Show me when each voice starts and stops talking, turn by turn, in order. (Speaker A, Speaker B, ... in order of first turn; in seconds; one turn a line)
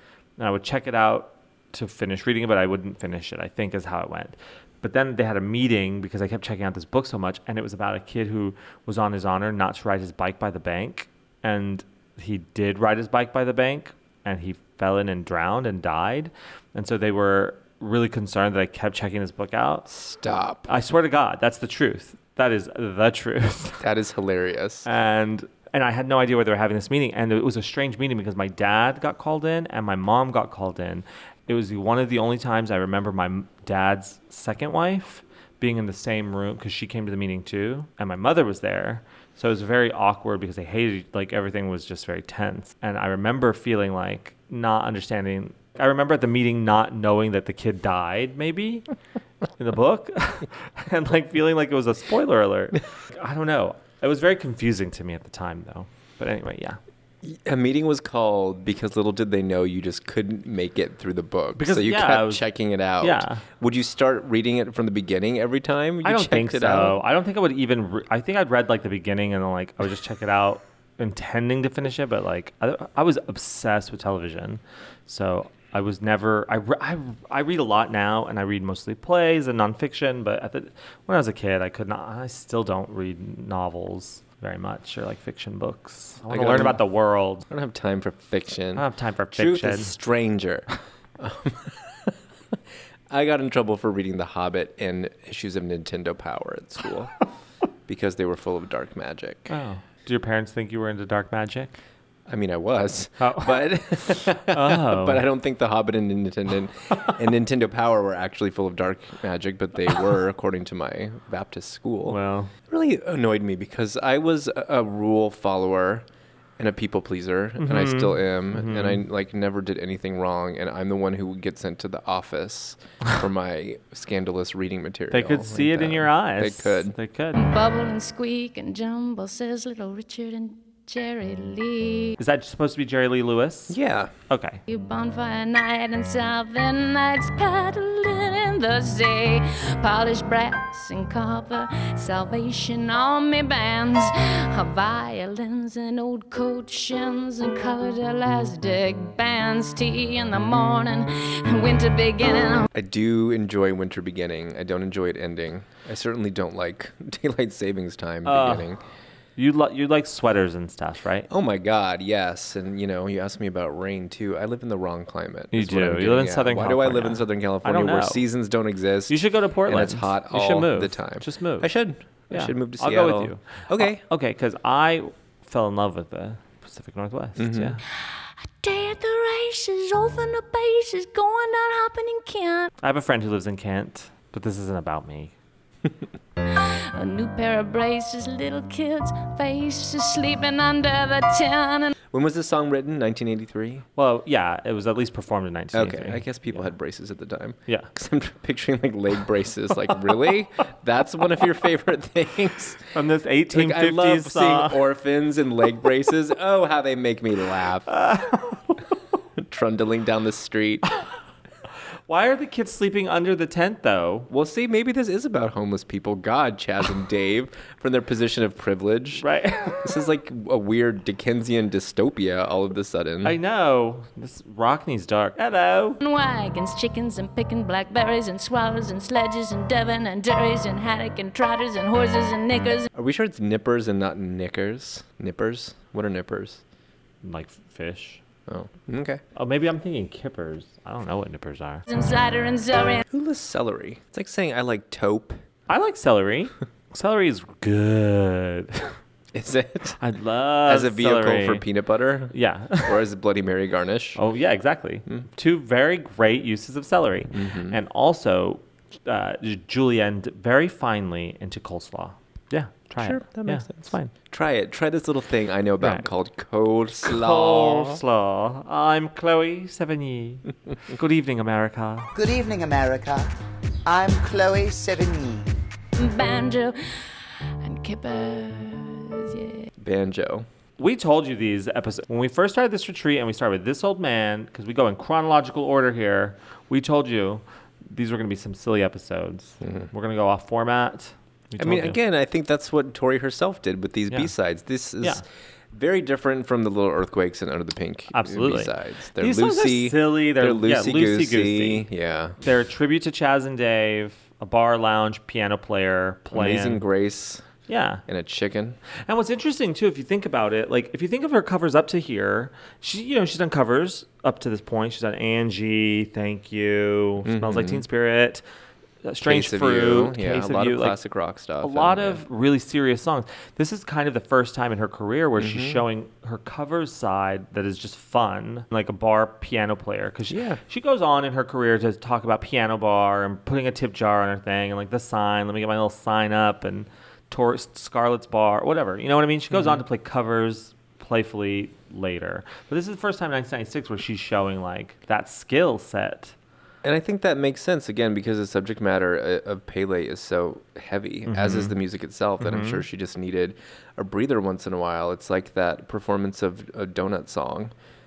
Speaker A: 0.4-19.9
Speaker B: 19.9-20.7
Speaker A: 20.7-23.8
Speaker B: 23.8-24.9
Speaker A: 24.9-48.9
Speaker A: 49.6-56.8
Speaker B: 57.2-67.0
Speaker A: 61.6-62.5
Speaker A: 63.0-63.4
Speaker A: 66.0-87.5
Speaker B: 86.3-86.8
Speaker B: 87.5-90.7
Speaker A: 88.8-90.0
Speaker B: 91.2-92.2
Speaker B: 93.1-97.1
Speaker B: 97.9-99.5
Speaker A: 99.5-101.8
Speaker B: 102.3-116.1
Speaker A: 103.2-105.2
Speaker A: 112.1-112.5
Speaker B: 116.6-127.0
Speaker A: 117.6-119.0
Speaker A: 125.1-127.4
Speaker C: 127.3-132.2
Speaker A: 132.2-133.8
Speaker B: 133.7-134.1
Speaker A: 134.3-134.6
Speaker C: 134.7-152.7
Speaker B: 152.7-158.8
Speaker A: 158.2-158.7
Speaker A: 159.4-161.3
Speaker B: 161.3-174.0
Speaker A: 165.5-168.2
Speaker A: 169.1-171.7
Speaker A: 172.3-177.8
Speaker B: 177.4-177.8
Speaker C: 178.0-182.7
Speaker A: 182.8-185.3
Speaker C: 186.5-191.9
Speaker B: 192.1-193.9
Speaker A: 194.0-196.7
Speaker B: 195.7-202.9
Speaker A: 202.9-204.8
Speaker B: 203.5-207.9
Speaker A: 207.9-208.6
Speaker B: 209.4-210.9
Speaker A: 212.1-214.3
Speaker B: 214.3-223.4
Speaker A: 219.2-219.9
Speaker A: 223.2-226.0
Speaker C: 226.0-232.9
Speaker B: 232.9-236.6
Speaker A: 237.2-238.2
Speaker B: 238.5-239.2
Speaker A: 239.3-241.8
Speaker C: 241.9-243.0
Speaker B: 243.1-245.4
Speaker A: 245.7-249.0
Speaker B: 249.3-250.0
Speaker A: 250.0-251.7
Speaker B: 250.7-254.2
Speaker A: 252.3-252.9
Speaker A: 254.2-264.1
Speaker B: 257.3-257.8
Speaker B: 263.0-268.0
Speaker A: 265.8-266.1
Speaker A: 267.0-272.1
Speaker D: 272.1-273.3
Speaker D: 273.9-275.6
Speaker C: 276.0-279.7
Speaker B: 279.8-280.5
Speaker A: 280.8-292.0
Speaker B: 289.6-289.9
Speaker B: 291.6-302.4
Speaker A: 298.1-301.9
Speaker A: 302.4-306.8
Speaker B: 306.3-307.5
Speaker A: 307.7-308.0
Speaker B: 308.1-308.8
Speaker A: 309.0-318.4
Speaker B: 317.2-317.9
Speaker A: 319.0-321.0
Speaker B: 319.2-322.2
Speaker A: 321.6-346.4
Speaker B: 325.4-325.8
Speaker B: 330.3-330.6
Speaker B: 339.5-339.8
Speaker B: 346.8-357.7
Speaker A: 351.3-351.8
Speaker A: 352.4-352.8